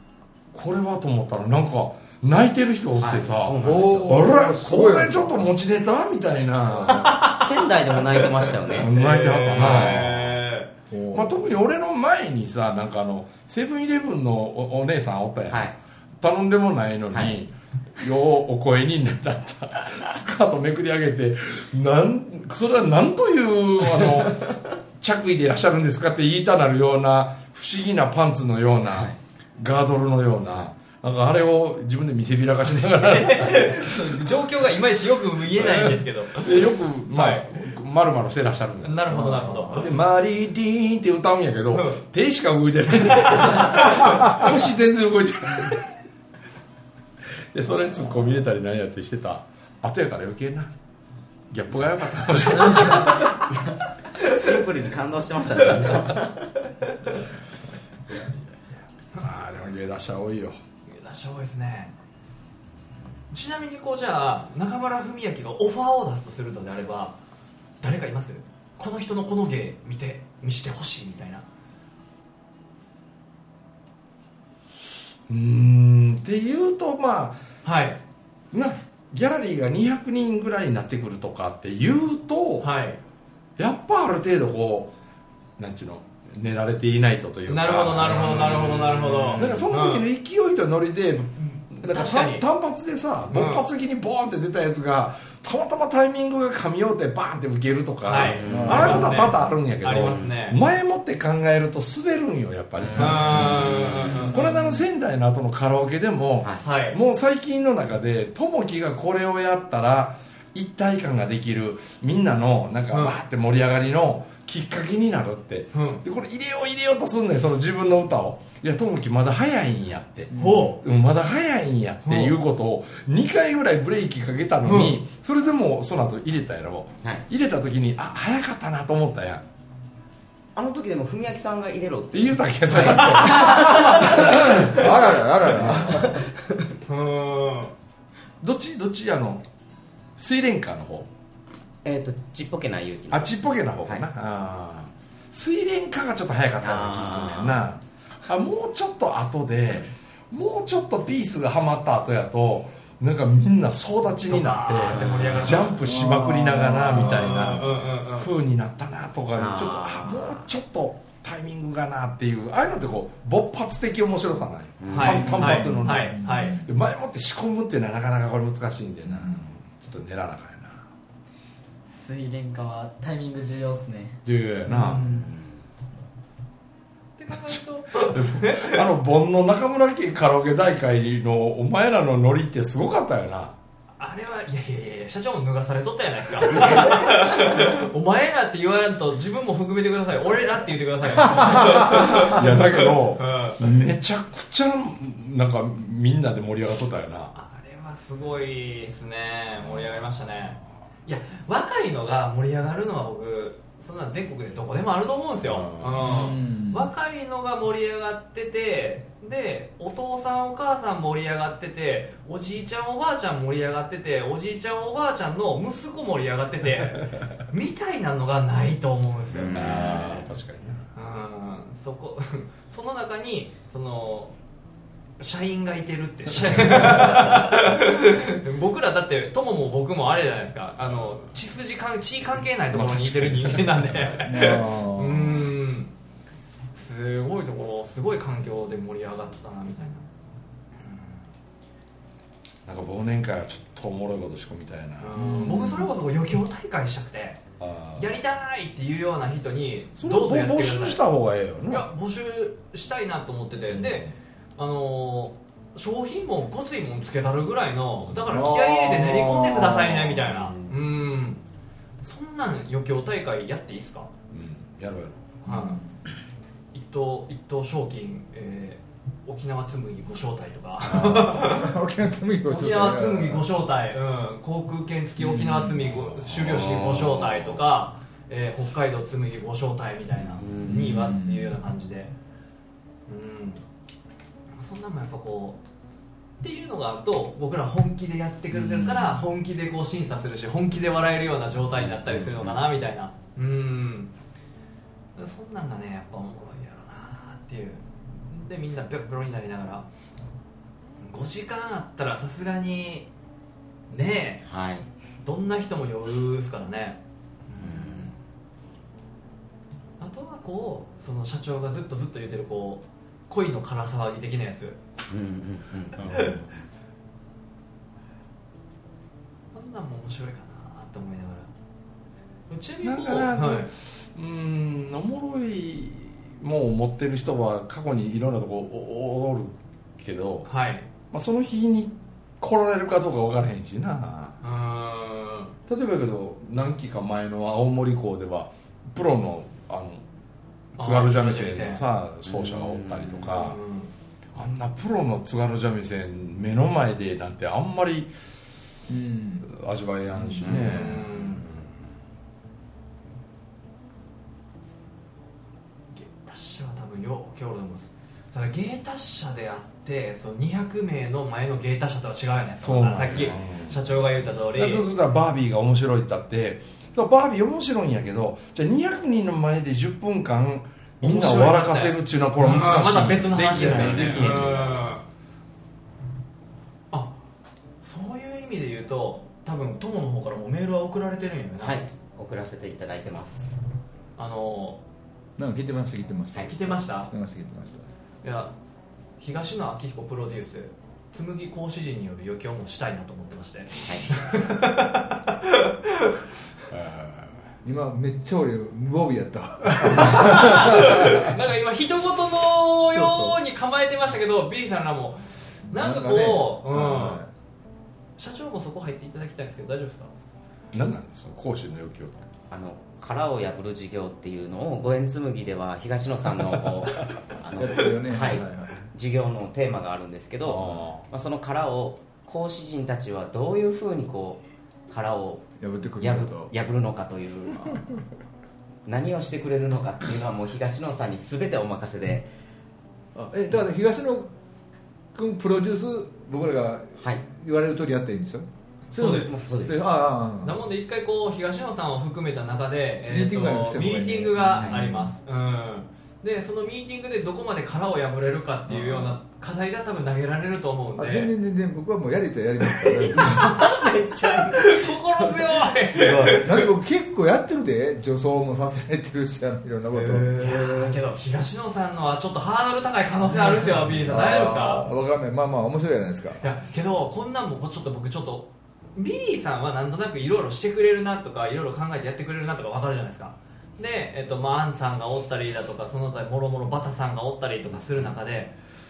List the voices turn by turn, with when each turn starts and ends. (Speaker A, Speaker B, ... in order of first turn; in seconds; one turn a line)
Speaker A: 0.5-7.3
Speaker B: 3.0-4.3
Speaker C: 3.6-5.5
Speaker D: 6.9-7.5
Speaker B: 7.2-8.9
Speaker D: 8.1-10.7
Speaker A: 8.7-10.4
Speaker B: 9.6-10.0
Speaker C: 10.9-11.3
Speaker A: 11.1-34.4
Speaker B: 15.5-15.8
Speaker D: 32.8-37.5
Speaker A: 35.5-45.9
Speaker D: 38.8-40.0
Speaker C: 39.1-39.5
Speaker D: 41.7-42.0
Speaker D: 43.2-44.1
Speaker A: 47.5-50.7
Speaker A: 51.5-53.3
Speaker D: 52.6-53.3
Speaker B: 52.9-56.5
Speaker A: 55.8-56.1
Speaker A: 59.1-60.6
Speaker D: 60.9-61.9
Speaker D: 63.3-67.2
Speaker D: 67.8-71.4
Speaker A: 75.3-77.4
Speaker D: 77.6-78.0
Speaker A: 78.5-82.7
Speaker D: 82.6-83.0
Speaker A: 83.6-84.9
Speaker A: 85.6-129.4
Speaker D: 87.5-90.1
Speaker D: 91.8-92.4
Speaker D: 93.3-93.7
Speaker D: 98.0-100.6
Speaker B: 98.2-99.1
Speaker C: 98.5-99.2
Speaker B: 100.0-100.3
Speaker B: 102.8-104.3
Speaker D: 102.9-104.4
Speaker D: 106.6-107.0
Speaker D: 112.9-113.2
Speaker D: 115.7-116.0
Speaker C: 120.3-120.6
Speaker D: 120.3-120.8
Speaker D: 122.0-122.4
Speaker D: 124.6-125.0
Speaker B: 130.6-134.8
Speaker A: 132.1-134.8
Speaker C: 134.6-136.2
Speaker A: 135.6-135.9
Speaker B: 135.6-136.3
Speaker D: 136.9-137.7
Speaker A: 138.4-139.4
Speaker A: 140.2-141.1
Speaker B: 141.8-144.0
Speaker A: 143.1-170.9
Speaker B: 146.6-147.6
Speaker D: 154.3-155.8
Speaker C: 155.8-157.7
Speaker D: 156.9-158.3
Speaker B: 159.3-160.5
Speaker B: 164.8-165.4
Speaker D: 164.9-166.6
Speaker C: 165.0-166.7
Speaker E: 171.9-174.2
Speaker A: 174.2-175.1
Speaker C: 174.9-175.2
Speaker B: 175.1-175.5
Speaker D: 177.2-178.8
Speaker A: 177.3-183.6
Speaker D: 184.0-193.6
Speaker A: 191.6-197.3
Speaker D: 197.3-220.2
Speaker A: 199.6-200.1
Speaker A: 205.4-206.2
Speaker C: 206.0-206.9
Speaker B: 219.3-220.1
Speaker A: 219.4-220.8
Speaker D: 220.9-224.3
Speaker D: 225.2-235.9
Speaker A: 232.7-234.2
Speaker C: 234.2-235.4
Speaker D: 236.7-240.1
Speaker D: 240.8-241.2
Speaker A: 242.7-245.2
Speaker D: 245.0-247.4
Speaker C: 245.1-245.9
Speaker A: 247.6-248.1
Speaker D: 247.9-251.0
Speaker A: 250.0-251.9
Speaker D: 251.7-261.4
Speaker A: 253.7-254.1
Speaker C: 258.2-259.9
Speaker A: 260.1-260.8
Speaker D: 262.0-264.1
Speaker A: 264.3-265.4
Speaker D: 265.4-265.8
Speaker C: 265.5-265.9
Speaker D: 266.7-271.8
Speaker A: 271.0-271.4
Speaker C: 271.2-273.5
Speaker D: 272.5-282.1
Speaker C: 275.2-275.8
Speaker A: 275.9-277.6
Speaker B: 280.4-281.0
Speaker C: 280.6-281.6
Speaker D: 283.1-283.6
Speaker D: 284.5-285.6
Speaker D: 286.4-294.1
Speaker B: 288.9-289.1
Speaker B: 292.0-292.6
Speaker D: 295.1-299.9
Speaker D: 301.0-303.1
Speaker D: 303.9-304.5
Speaker B: 304.5-304.9
Speaker D: 305.2-307.0
Speaker B: 307.6-308.1
Speaker D: 307.6-308.0
Speaker D: 310.0-314.8
Speaker B: 315.1-316.3
Speaker D: 316.0-316.4
Speaker A: 316.0-316.4
Speaker D: 319.5-321.5
Speaker D: 322.5-323.7
Speaker A: 322.8-330.5
Speaker D: 330.4-330.9
Speaker A: 331.1-334.4
Speaker D: 334.4-335.6
Speaker A: 335.7-340.0
Speaker D: 340.8-341.9
Speaker A: 340.8-343.6
Speaker B: 342.2-343.3
Speaker D: 343.3-343.9
Speaker A: 344.3-348.1
Speaker C: 348.9-349.5
Speaker A: 349.4-351.6
Speaker B: 350.2-350.7
Speaker D: 350.4-351.4
Speaker D: 355.9-364.9
Speaker A: 362.6-363.9
Speaker A: 364.5-374.8
Speaker D: 371.0-375.0
Speaker B: 373.5-374.8
Speaker D: 376.9-377.2
Speaker D: 377.8-381.8
Speaker B: 381.6-383.6
Speaker D: 384.2-384.8
Speaker C: 385.4-387.9
Speaker D: 386.4-387.1
Speaker D: 388.2-388.5
Speaker D: 389.2-396.2
Speaker B: 393.9-394.1
Speaker A: 396.7-397.4
Speaker C: 397.6-401.3
Speaker D: 399.6-407.2
Speaker C: 402.8-403.4
Speaker C: 405.7-407.3
Speaker D: 408.2-410.1
Speaker A: 410.7-412.3
Speaker B: 412.5-428.0
Speaker C: 417.6-418.9
Speaker A: 420.4-421.1
Speaker C: 425.6-426.5
Speaker B: 428.9-432.3
Speaker C: 433.1-434.3
Speaker C: 435.1-440.6
Speaker B: 437.0-437.2
Speaker D: 438.9-439.4
Speaker B: 439.0-439.9
Speaker D: 440.4-451.3
Speaker C: 443.1-445.1
Speaker C: 448.7-449.1
Speaker C: 451.0-453.6
Speaker B: 453.1-454.9
Speaker D: 453.2-456.7
Speaker C: 455.9-461.0
Speaker D: 459.9-464.9
Speaker C: 463.3-466.5
Speaker D: 466.4-478.5